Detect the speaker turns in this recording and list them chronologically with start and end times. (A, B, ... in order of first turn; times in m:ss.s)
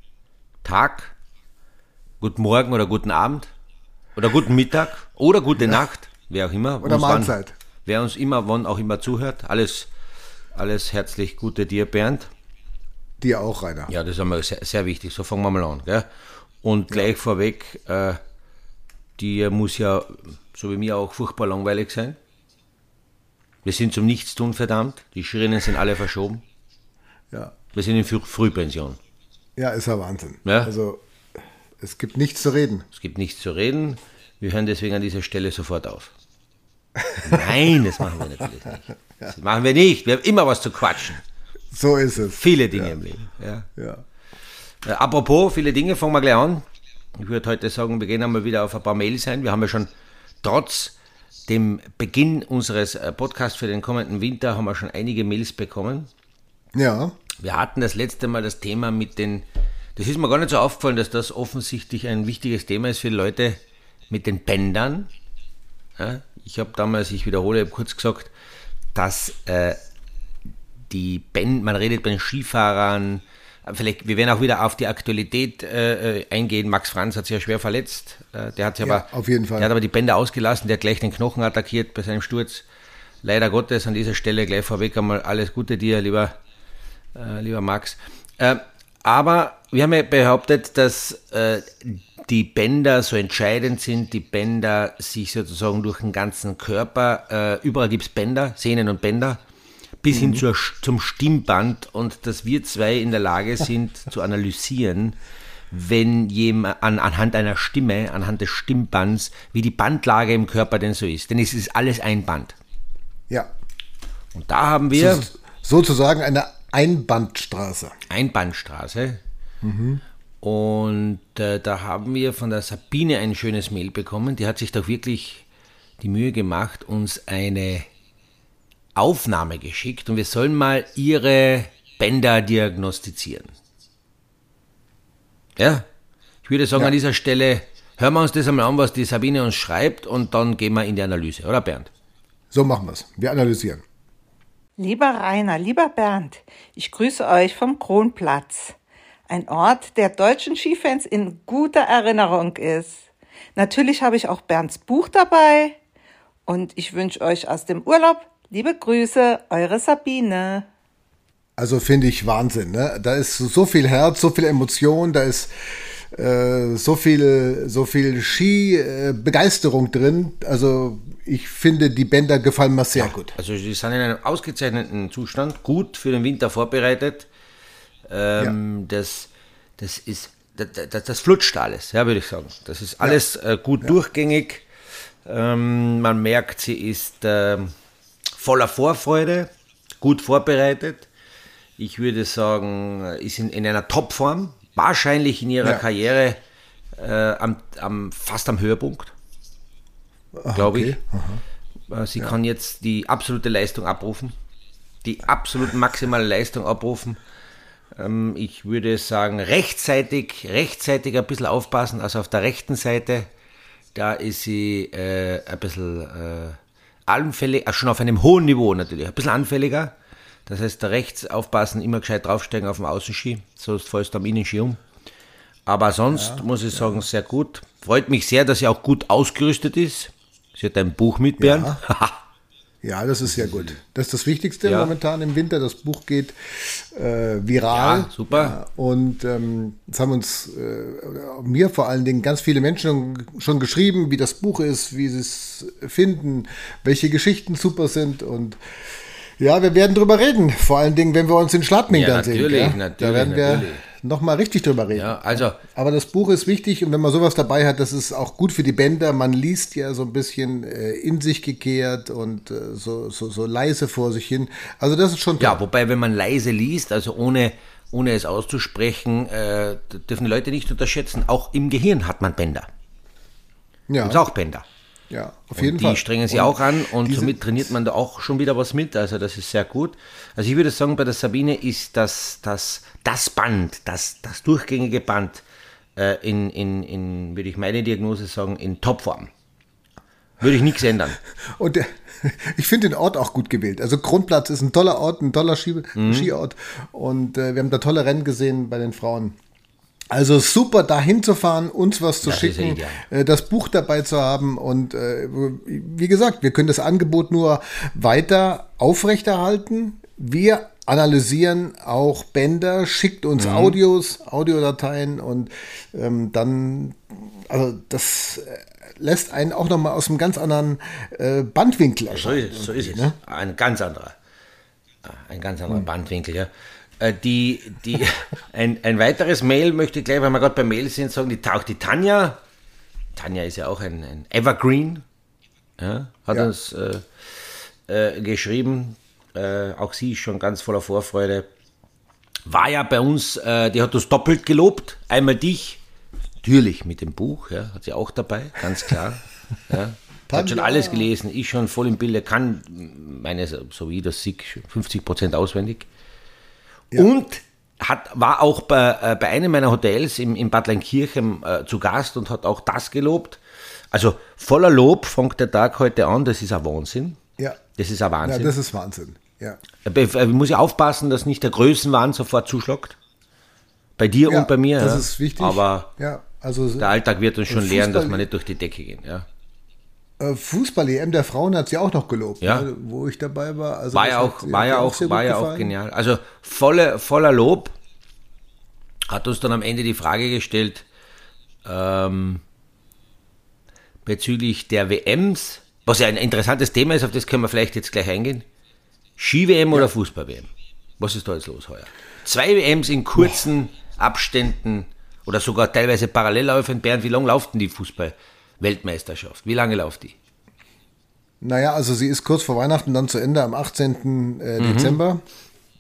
0:00.6-0:01.2 A
0:02.2-0:03.5 A
0:04.2-0:09.9 A
0:06.8-0:07.5 B
0:10.6-0:12.3 A
0:13.2-0:13.9 B
0:13.9-0:16.1 A
0:16.6-0:18.2 A
0:19.2-0:22.2 A
0:23.6-0:26.4 A
0:27.7-0:29.0 A
0:29.6-0:31.0 B
0:30.4-0:30.7 A
0:31.8-0:32.9 B
0:32.9-0:36.1 A
0:37.0-0:38.0 B
0:37.2-0:41.2 A
0:41.7-0:43.0 B
0:42.4-0:43.7 A
0:43.8-0:44.0 B
0:44.8-0:46.6 A
0:47.2-0:49.9 A
0:50.4-0:51.0 A
0:51.5-0:56.1 A
0:56.8-0:57.2 B
0:57.4-0:59.4 A
1:00.0-1:05.1 A
1:06.0-1:08.3 A
1:09.0-1:09.8 A
1:10.9-1:22.6 A
1:18.8-1:19.7 B
1:23.2-1:26.3 A
1:27.2-1:39.4 A
1:40.0-1:45.2 A
1:40.1-1:40.4 B
1:45.7-1:52.6 A
1:54.3-1:55.3 A
1:55.0-1:57.9 B
1:58.1-1:59.2 A
1:59.6-2:00.0 B
2:00.4-2:05.4 A
2:06.0-2:07.9 A
2:09.0-2:13.5 A
2:15.6-2:15.8 A
2:16.4-2:21.9 A
2:22.5-2:23.8 B
2:24.8-2:28.8 C
2:29.3-2:35.8 C
2:36.5-2:40.7 C
2:41.6-2:53.4 B
2:53.0-2:57.3 A
2:58.1-3:04.6 A
3:05.2-3:07.7 A
3:08.4-3:09.5 A
3:10.0-3:11.1 A
3:11.8-3:16.4 A
3:17.0-3:19.1 A
3:20.4-3:21.4 B
3:20.6-3:21.0 A
3:21.9-3:24.3 A
3:25.0-3:27.2 A
3:27.9-3:33.3 A
3:34.0-3:39.9 A
3:40.5-3:44.8 A
3:45.7-3:52.2 A
3:46.1-3:46.4 B
3:51.4-3:51.8 B
3:52.8-4:08.6 B
3:53.4-3:53.7 A
3:54.6-3:54.9 A
3:57.7-3:58.6 A
4:09.4-4:25.6 B
4:11.9-4:13.8 A
4:14.9-4:15.6 A
4:25.4-4:32.7 A
4:33.9-4:34.2 B
4:34.0-4:34.6 A
4:35.1-4:37.7 B
4:35.5-4:45.4 A
4:46.0-4:49.3 A
4:50.4-4:51.2 A
4:51.4-4:59.4 B
4:56.0-4:56.3 A
5:00.1-5:23.2 B
5:02.2-5:03.0 A
5:13.4-5:13.8 A
5:22.1-5:24.2 A
5:25.0-5:32.4 A
5:33.2-5:35.0 A
5:35.8-5:37.1 A
5:37.9-5:41.5 A
5:42.5-5:45.8 A
5:46.4-5:55.9 A
5:50.3-5:51.1 B
5:56.9-6:03.4 A
6:03.9-6:07.2 A
6:07.8-6:08.5 A
6:08.2-6:09.6 B
6:09.8-6:13.0 A
6:14.0-6:15.9 A
6:14.3-6:16.9 B
6:16.8-6:19.3 A
6:17.5-6:18.3 B
6:20.2-6:25.7 B
6:22.4-6:22.7 A
6:23.9-6:27.8 A
6:29.1-6:30.9 A
6:31.6-6:32.4 A
6:34.1-6:38.4 A
6:39.2-6:50.2 A
6:51.4-6:55.2 B
6:54.6-6:55.0 A